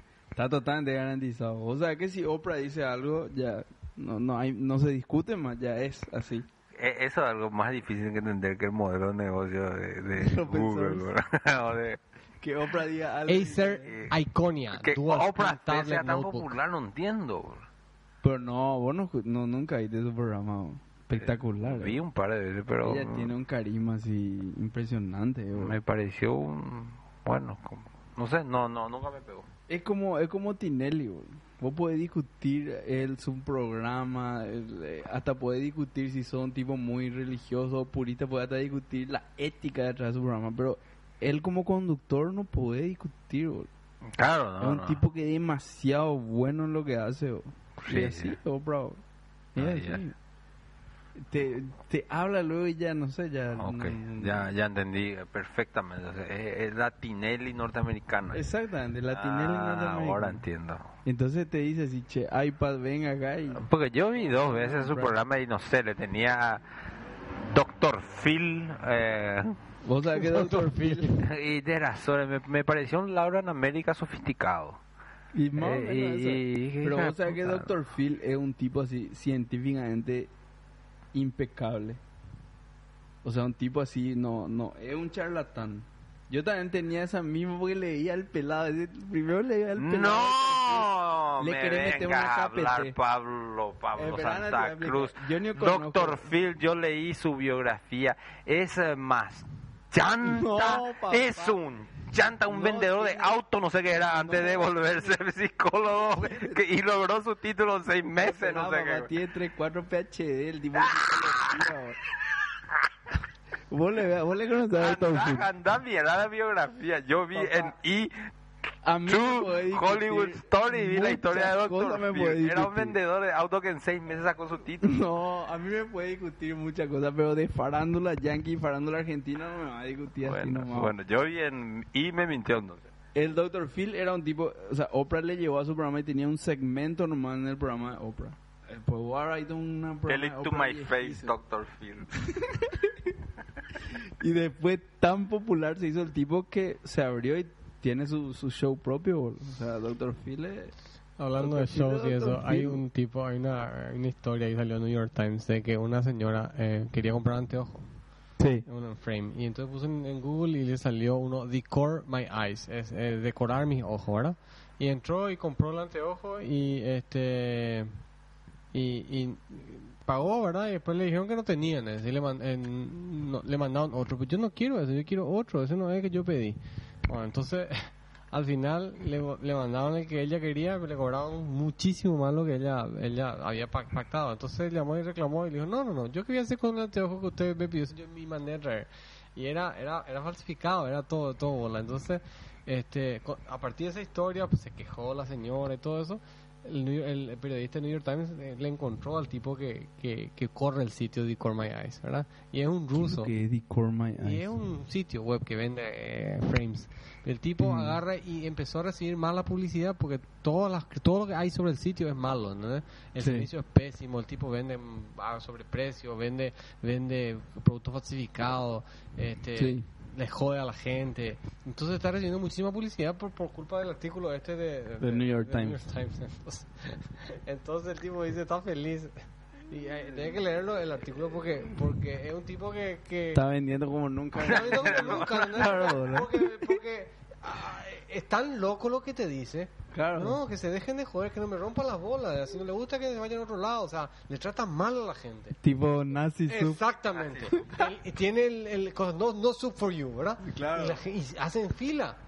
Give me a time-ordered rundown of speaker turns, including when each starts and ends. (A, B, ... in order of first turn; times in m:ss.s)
0:00.3-0:06.5 A
0:06.8-0:12.0 B
0:10.2-0:11.1 A
0:12.4-0:14.0 A
0:13.3-0:16.5 C
0:14.8-0:17.7 B
0:18.2-0:22.0 A
0:21.2-0:23.3 B
0:22.8-0:25.8 A
0:25.6-0:29.5 B
0:29.7-0:43.7 A
0:44.1-0:45.0 B
0:44.6-0:49.0 A
0:47.8-0:48.4 B
0:49.6-0:50.2 A
0:49.6-0:50.0 B
0:51.2-0:54.5 A
0:53.6-0:58.5 B
0:58.3-1:00.4 A
0:59.1-1:00.9 B
1:01.0-1:05.2 A
1:03.6-1:06.6 B
1:07.5-1:09.6 B
1:09.8-1:11.2 A
1:10.2-1:11.2 C
1:11.2-1:14.8 B
1:15.3-1:20.3 A
1:15.6-1:17.7 B
1:21.1-1:22.0 A
1:23.2-1:33.0 A
1:29.8-1:49.1 B
1:34.0-1:36.3 A
1:40.2-1:41.6 A
1:42.5-1:43.4 A
1:44.1-1:45.2 A
1:46.1-1:46.6 A
1:48.2-1:52.0 A
1:51.0-1:51.5 B
1:53.7-1:55.5 A
1:54.8-1:58.1 B
1:57.3-1:57.8 A
1:58.8-2:03.0 A
1:59.1-2:05.0 B
2:04.8-2:11.0 A
2:10.2-2:12.8 B
2:13.1-2:21.3 A
2:20.1-2:22.3 B
2:22.2-2:23.1 A
2:23.8-2:30.7 A
2:31.2-2:37.8 C
2:31.4-2:32.8 A
2:38.4-2:38.6 A
2:38.6-2:47.9 C
2:48.7-3:23.3 C
3:23.0-3:24.6 A
3:24.2-3:49.2 C
3:27.6-3:28.0 A
3:33.2-3:33.5 A
3:39.6-3:39.8 A
3:45.0-3:45.8 A
3:49.7-3:53.4 C
3:53.3-3:56.6 A
3:54.4-4:05.6 C
3:54.7-3:55.4 B
3:59.9-4:00.4 A
4:05.6-4:06.8 A
4:06.5-4:12.2 C
4:07.2-4:07.5 B
4:07.5-4:07.9 A
4:10.4-4:11.0 A